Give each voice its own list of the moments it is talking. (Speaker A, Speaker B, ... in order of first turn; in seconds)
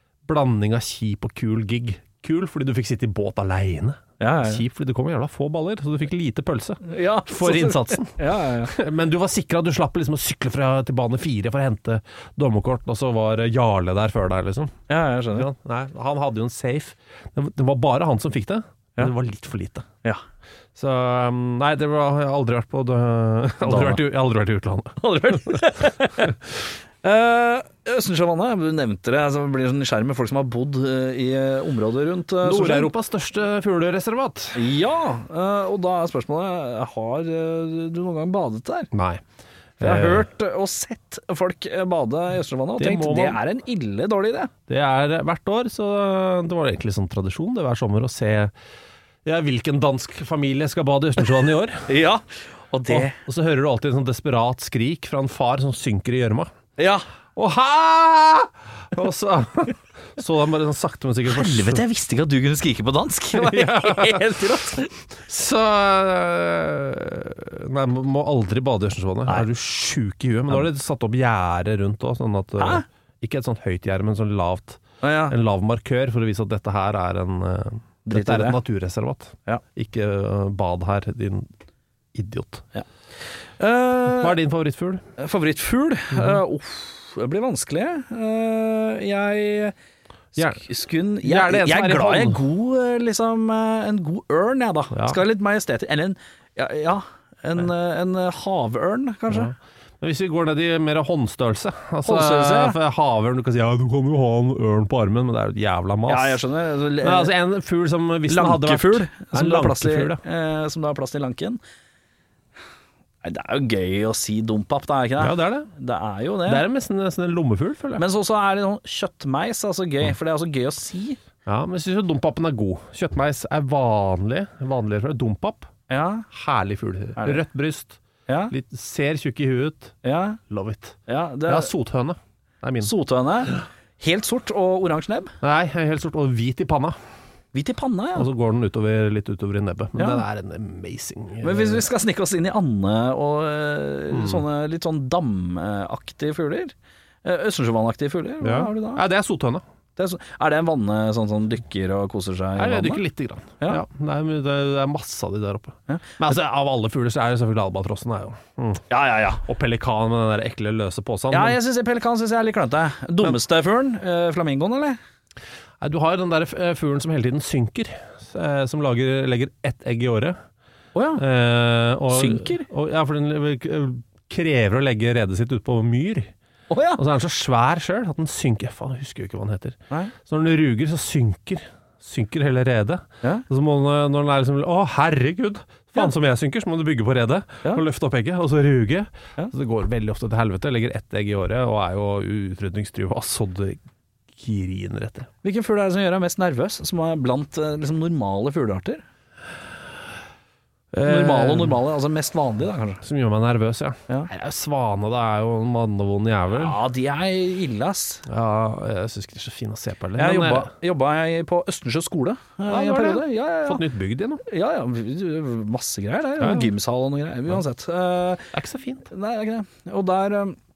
Speaker A: 0.2-14.8, 15.3-19.9, 20.7-25.7, 32.4-34.6, 38.9-39.2, 39.8-40.2, 42.8-43.4, 44.7-48.5, 49.2-51.9, 52.9-56.5, 57.4-61.8, 63.3-64.4, 65.1-81.5, 82.1-82.6, 84.1-85.0, 86.1-86.4, 90.4-90.6, 91.2-92.4, 94.9-95.2, 99.3-106.4, 107.0-110.2, 115.2-115.7, 116.5-118.0, 121.5-125.7, 126.3-129.9, 130.5-132.9, 135.4-137.0, 138.1-141.9, 144.1-144.4, 148.4-149.6, 152.6-158.8, 159.4-161.6, 165.8-170.4, 171.2-176.3, 177.0-193.8, 194.3-195.3, 200.9-201.8, 203.0-206.8, 208.3-210.7, 212.7-214.4, 216.4-216.7, 218.5-219.1
Speaker B: 4.2-4.6, 6.8-8.7, 14.9-15.5, 23.6-24.0, 25.0-26.4, 27.0-32.9, 34.5-38.9, 39.8-44.5, 51.9-53.2, 56.8-57.0, 61.3-64.9, 72.6-72.8, 75.0-75.3, 78.0-78.6, 83.6-84.3, 85.2-89.7, 90.3-99.5, 102.0-102.8, 106.1-107.3, 108.3-111.6, 113.2-116.6, 118.0-121.2, 125.9-126.2, 127.2-127.4, 128.3-128.5, 130.0-130.4, 131.1-131.7, 132.8-135.3, 137.5-138.3, 140.0-140.2, 141.4-149.0, 149.9-153.0, 158.9-159.4, 161.3-165.0, 170.9-171.2, 172.1-172.7, 176.7-177.0, 195.4-199.0, 201.0-203.0, 206.5-208.2, 210.2-213.8, 214.4-218.5, 219.1-220.6